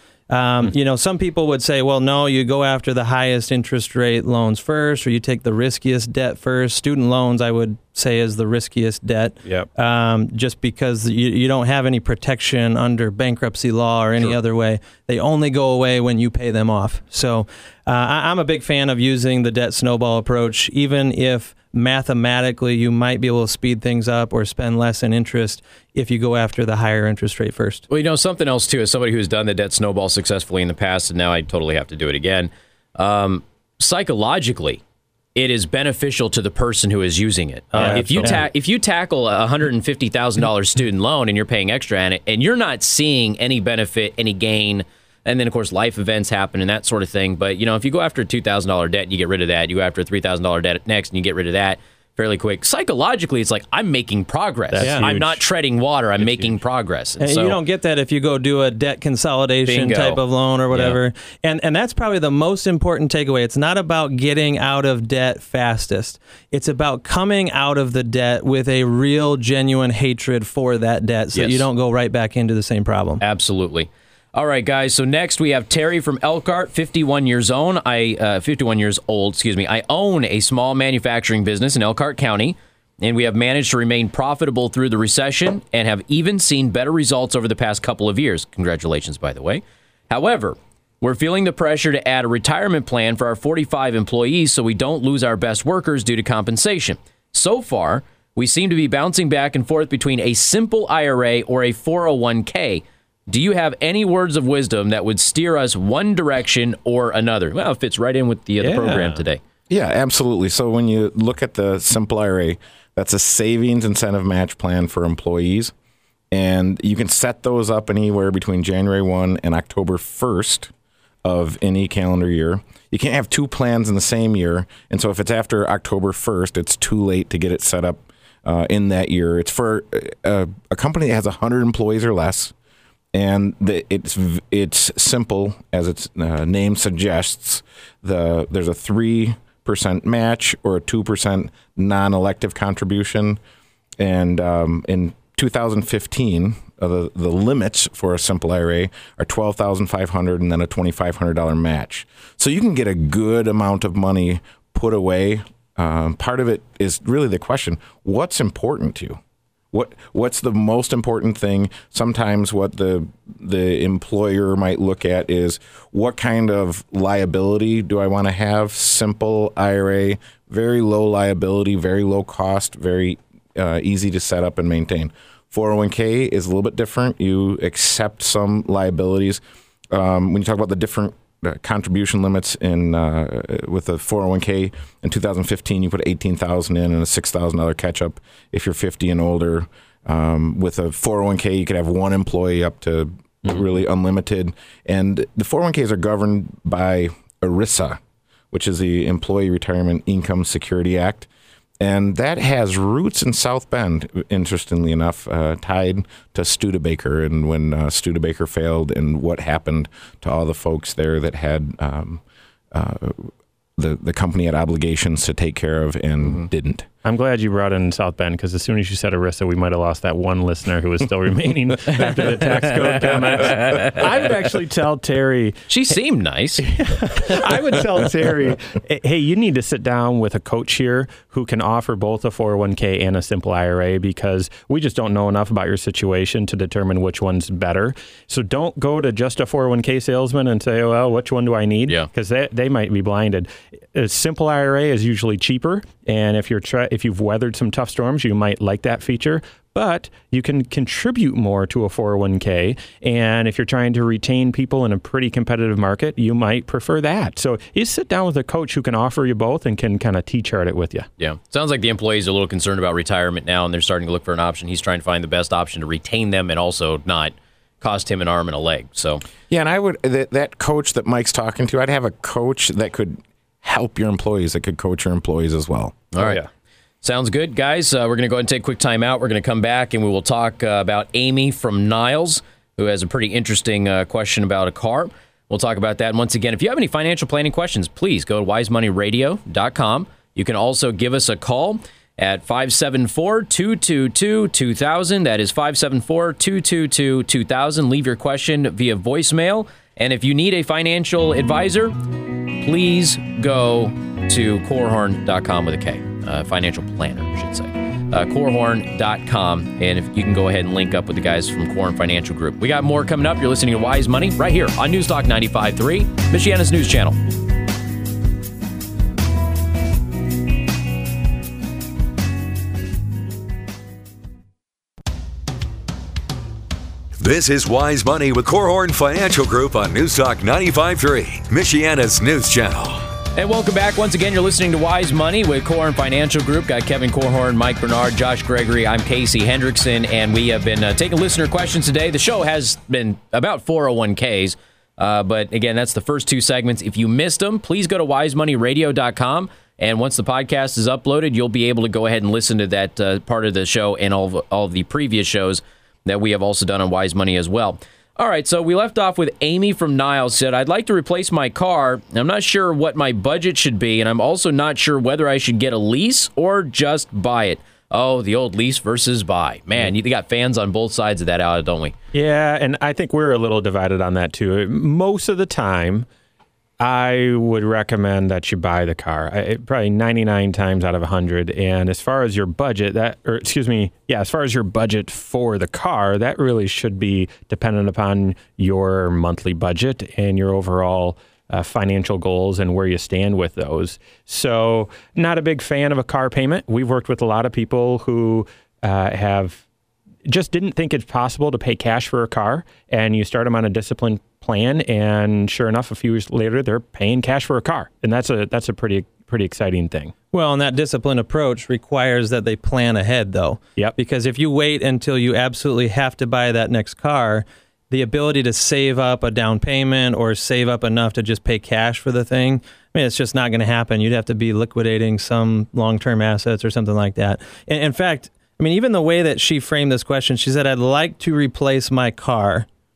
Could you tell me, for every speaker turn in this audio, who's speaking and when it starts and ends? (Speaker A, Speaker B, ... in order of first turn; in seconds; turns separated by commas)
Speaker A: 0.3-27.9, Speaker B: 27.9-34.8, Speaker B: 35.4-57.6, Speaker A: 37.7-38.4, Speaker C: 37.8-38.4, Speaker C: 54.7-55.4, Speaker A: 54.8-55.1, Speaker C: 56.2-56.5, Speaker A: 57.2-73.2, Speaker B: 59.7-60.2, Speaker B: 60.7-61.0, Speaker B: 71.3-71.7, Speaker B: 73.2-109.4, Speaker C: 108.6-109.2, Speaker D: 109.7-115.7, Speaker D: 116.3-120.7, Speaker D: 121.2-132.5, Speaker D: 133.1-143.4, Speaker D: 144.0-159.2, Speaker D: 159.7-179.4, Speaker D: 179.9-198.0, Speaker D: 198.5-201.3, Speaker D: 201.8-216.9, Speaker C: 217.0-225.9, Speaker B: 222.8-223.9, Speaker B: 225.7-226.7, Speaker C: 226.6-261.1, Speaker B: 261.2-269.2, Speaker D: 269.5-276.0, Speaker B: 276.1-276.4, Speaker C: 276.2-276.5, Speaker B: 277.0-302.0, Speaker B: 302.6-317.2, Speaker E: 327.2-333.1, Speaker B: 333.4-371.9, Speaker C: 372.1-376.1, Speaker C: 376.8-399.6, Speaker C: 400.3-410.1, Speaker A: 410.3-432.7